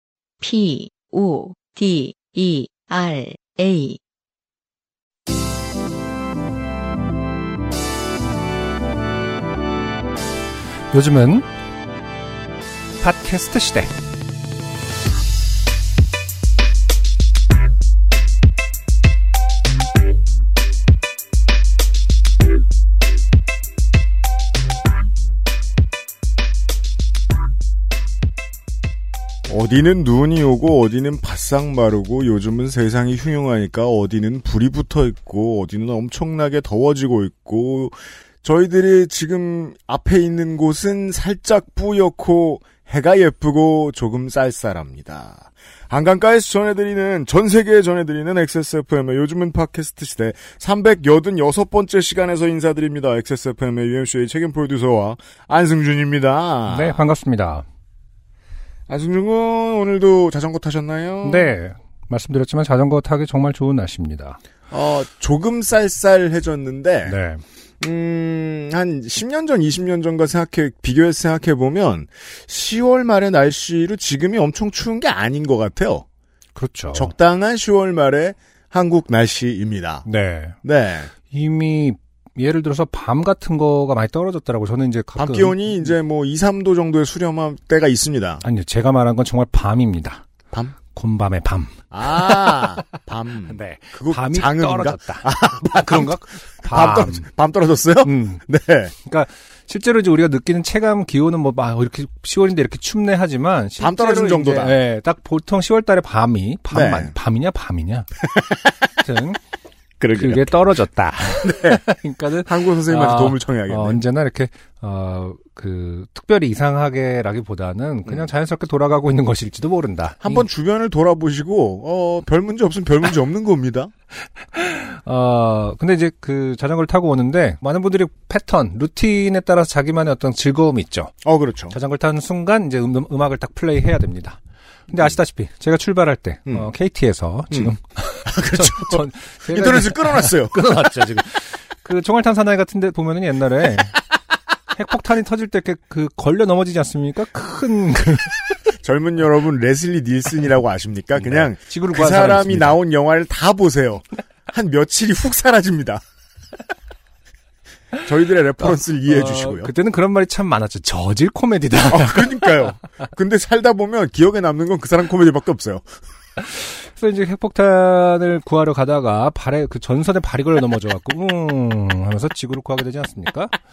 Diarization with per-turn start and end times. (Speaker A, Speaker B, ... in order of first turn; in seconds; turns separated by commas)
Speaker A: 0.4-4.0, Speaker B: 10.9-11.5, Speaker B: 13.0-13.9, Speaker C: 29.5-57.0, Speaker B: 56.7-57.6, Speaker C: 58.9-61.5, Speaker B: 61.2-64.4, Speaker C: 64.7-67.2, Speaker B: 67.0-67.4, Speaker C: 67.8-76.0, Speaker B: 76.5-77.1, Speaker C: 76.9-80.0, Speaker B: 80.0-80.5, Speaker C: 80.6-81.1, Speaker B: 81.3-85.6, Speaker C: 85.2-88.4, Speaker B: 88.4-90.2, Speaker B: 90.9-92.7, Speaker C: 91.9-98.9, Speaker B: 93.5-97.2, Speaker B: 98.0-98.4, Speaker B: 99.0-108.1, Speaker C: 103.8-104.8, Speaker C: 106.7-107.1, Speaker C: 108.3-108.7, Speaker B: 109.0-109.4, Speaker C: 110.0-110.5, Speaker B: 110.2-120.4, Speaker C: 111.4-111.8, Speaker C: 112.4-114.0, Speaker C: 120.2-123.9, Speaker B: 124.5-131.1, Speaker C: 131.2-131.7, Speaker B: 131.7-144.0, Speaker C: 138.2-140.8, Speaker B: 144.7-148.4, Speaker C: 148.8-156.0, Speaker B: 151.2-152.8, Speaker C: 158.0-159.7, Speaker B: 158.6-162.7, Speaker C: 161.9-165.8, Speaker B: 166.4-173.6